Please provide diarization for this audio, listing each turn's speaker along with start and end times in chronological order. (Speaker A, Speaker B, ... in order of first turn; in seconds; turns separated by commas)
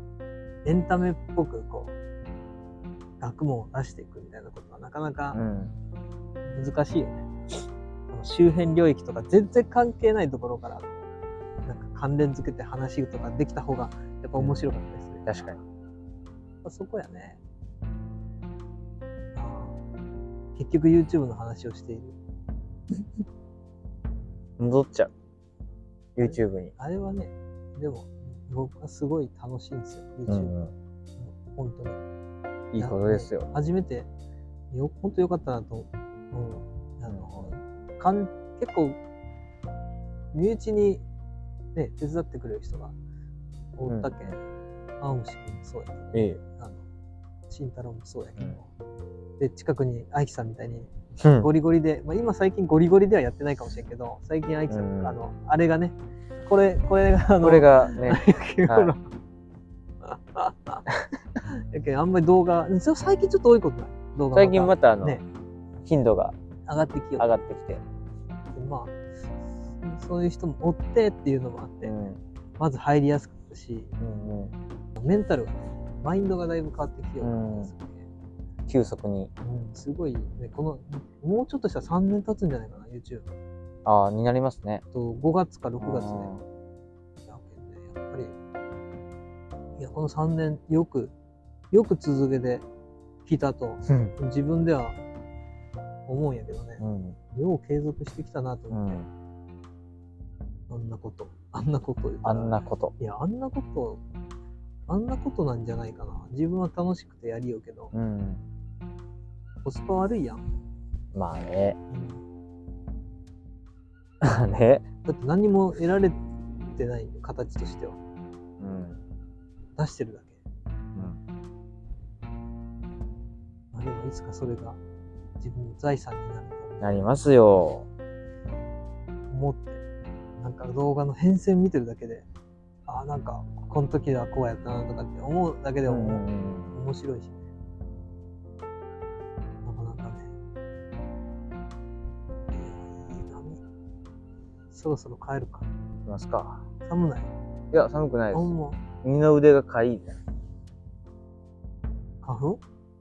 Speaker A: 0.6-1.9, Speaker A: 3.2-5.4, Speaker B: 5.3-5.7, Speaker A: 6.5-7.3, Speaker A: 8.1-11.0, Speaker A: 11.6-15.4, Speaker B: 14.4-15.6, Speaker A: 16.6-17.4, Speaker A: 19.3-19.8, Speaker A: 20.5-22.1, Speaker B: 24.6-25.1, Speaker B: 26.1-26.7, Speaker A: 26.2-30.5, Speaker B: 30.3-30.7, Speaker A: 31.2-32.0, Speaker B: 32.7-33.5, Speaker A: 32.8-34.1, Speaker A: 34.7-39.0, Speaker B: 37.1-37.5, Speaker A: 40.3-41.0, Speaker A: 41.7-42.9, Speaker A: 43.8-44.4, Speaker B: 43.9-44.3, Speaker A: 45.0-46.8, Speaker B: 46.1-46.4, Speaker A: 47.5-48.7, Speaker A: 49.4-59.0, Speaker B: 51.2-51.5, Speaker B: 54.7-55.1, Speaker B: 57.4-58.9, Speaker A: 60.0-60.8, Speaker A: 61.4-65.2, Speaker B: 64.3-65.2, Speaker B: 65.8-66.3, Speaker A: 66.7-67.4, Speaker B: 67.2-67.8, Speaker A: 68.5-68.9, Speaker A: 69.8-71.9, Speaker B: 71.8-72.2, Speaker A: 72.6-73.9, Speaker B: 74.0-74.5, Speaker A: 75.0-78.0, Speaker B: 77.2-77.7, Speaker B: 78.7-79.3, Speaker A: 79.4-83.2, Speaker B: 83.8-84.8, Speaker A: 84.9-86.3, Speaker B: 85.8-86.4, Speaker A: 87.3-88.3, Speaker A: 89.8-91.1, Speaker A: 91.7-92.6, Speaker A: 93.2-95.0, Speaker B: 93.8-94.1, Speaker A: 96.1-99.0, Speaker B: 96.8-97.2, Speaker B: 98.7-99.1, Speaker A: 100.7-104.0, Speaker B: 102.2-102.9, Speaker A: 104.9-107.9, Speaker B: 107.9-108.4, Speaker A: 109.6-110.4, Speaker B: 111.1-111.8, Speaker A: 111.9-112.2, Speaker B: 114.2-114.8, Speaker A: 115.0-116.2, Speaker A: 116.7-118.0, Speaker B: 118.6-119.0, Speaker A: 119.8-120.4, Speaker B: 120.9-121.2, Speaker A: 123.7-124.8, Speaker A: 125.4-127.3, Speaker B: 126.8-127.9, Speaker A: 129.3-129.8, Speaker A: 130.4-132.2, Speaker A: 132.9-137.4, Speaker B: 135.9-136.7, Speaker A: 139.6-140.3, Speaker A: 142.5-143.6, Speaker A: 144.7-145.7, Speaker B: 146.1-146.6, Speaker A: 146.8-147.3, Speaker B: 147.7-148.5, Speaker A: 148.3-148.8, Speaker B: 149.0-150.2, Speaker A: 152.2-152.6